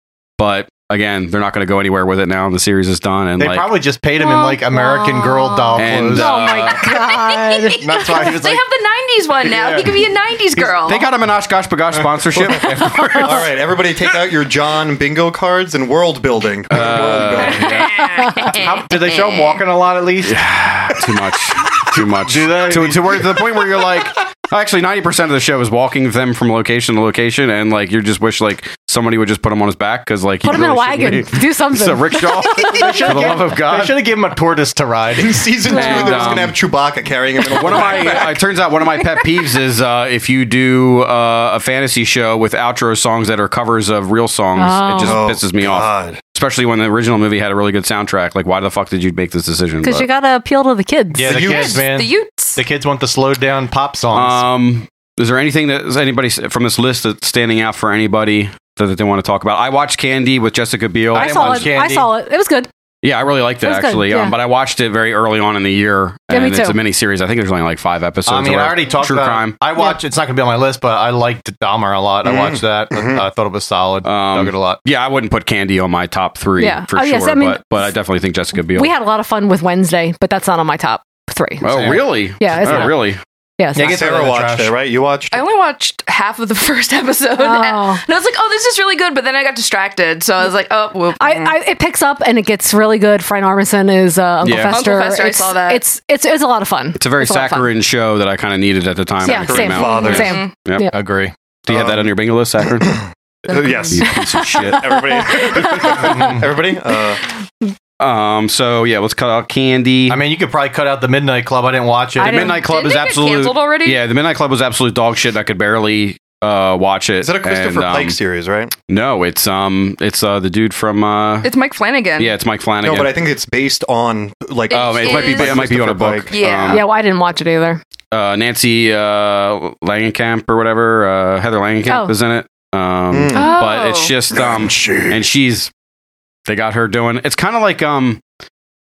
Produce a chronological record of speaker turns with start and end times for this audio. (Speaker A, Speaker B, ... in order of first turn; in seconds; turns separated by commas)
Speaker A: 0.4-3.7, Speaker B: 3.4-6.5, Speaker C: 4.2-5.5, Speaker D: 4.9-5.8, Speaker A: 5.8-6.8, Speaker C: 6.1-8.3, Speaker D: 6.8-11.0, Speaker B: 7.7-8.6, Speaker B: 9.4-10.8, Speaker A: 10.8-13.3, Speaker B: 11.9-13.3, Speaker E: 13.2-17.9, Speaker A: 16.7-18.0, Speaker D: 17.9-19.6, Speaker C: 18.0-18.5, Speaker B: 18.4-20.4, Speaker A: 20.2-34.0, Speaker B: 21.8-23.9, Speaker C: 30.4-33.4, Speaker B: 32.7-35.5, Speaker E: 35.1-38.4, Speaker C: 35.7-36.5, Speaker A: 35.7-36.6, Speaker A: 37.5-50.1, Speaker C: 44.6-45.2, Speaker E: 45.0-46.2, Speaker C: 49.8-51.3, Speaker B: 51.1-54.5, Speaker E: 51.2-51.8, Speaker D: 51.4-52.6, Speaker A: 54.1-61.8, Speaker B: 61.1-62.1, Speaker C: 61.1-62.7, Speaker A: 63.0-69.6, Speaker C: 63.6-64.4, Speaker C: 66.3-66.8, Speaker B: 68.3-74.8, Speaker E: 72.2-73.3, Speaker A: 74.0-78.9, Speaker C: 76.6-77.9, Speaker C: 78.7-81.7, Speaker A: 81.6-83.2, Speaker B: 81.7-82.1, Speaker C: 82.4-83.0, Speaker B: 82.6-82.9, Speaker C: 83.6-83.9, Speaker B: 83.7-84.7, Speaker E: 83.8-85.4, Speaker D: 85.3-91.5, Speaker C: 87.4-88.0, Speaker C: 91.2-97.7, Speaker A: 94.4-94.8, Speaker D: 94.7-95.8, Speaker A: 97.0-100.9, Speaker C: 99.2-100.9, Speaker E: 99.4-100.3, Speaker D: 99.8-100.5, Speaker B: 100.9-101.3, Speaker A: 101.7-103.0, Speaker E: 101.7-102.1, Speaker E: 102.8-107.2, Speaker A: 103.9-104.8, Speaker C: 105.2-106.0, Speaker B: 105.8-106.5, Speaker A: 108.0-110.2, Speaker B: 110.1-112.6, Speaker A: 112.2-118.2, Speaker C: 112.2-112.6, Speaker D: 112.6-114.0, Speaker E: 117.2-118.7, Speaker A: 118.9-121.5, Speaker D: 121.4-122.3, Speaker A: 122.2-123.2, Speaker E: 122.8-126.3, Speaker D: 124.7-125.7, Speaker A: 124.7-126.8, Speaker D: 126.3-126.8, Speaker C: 126.7-127.8, Speaker A: 128.1-135.7, Speaker C: 131.9-132.1, Speaker E: 133.1-133.5, Speaker D: 133.3-134.1, Speaker E: 134.3-135.2, Speaker A: 136.5-138.2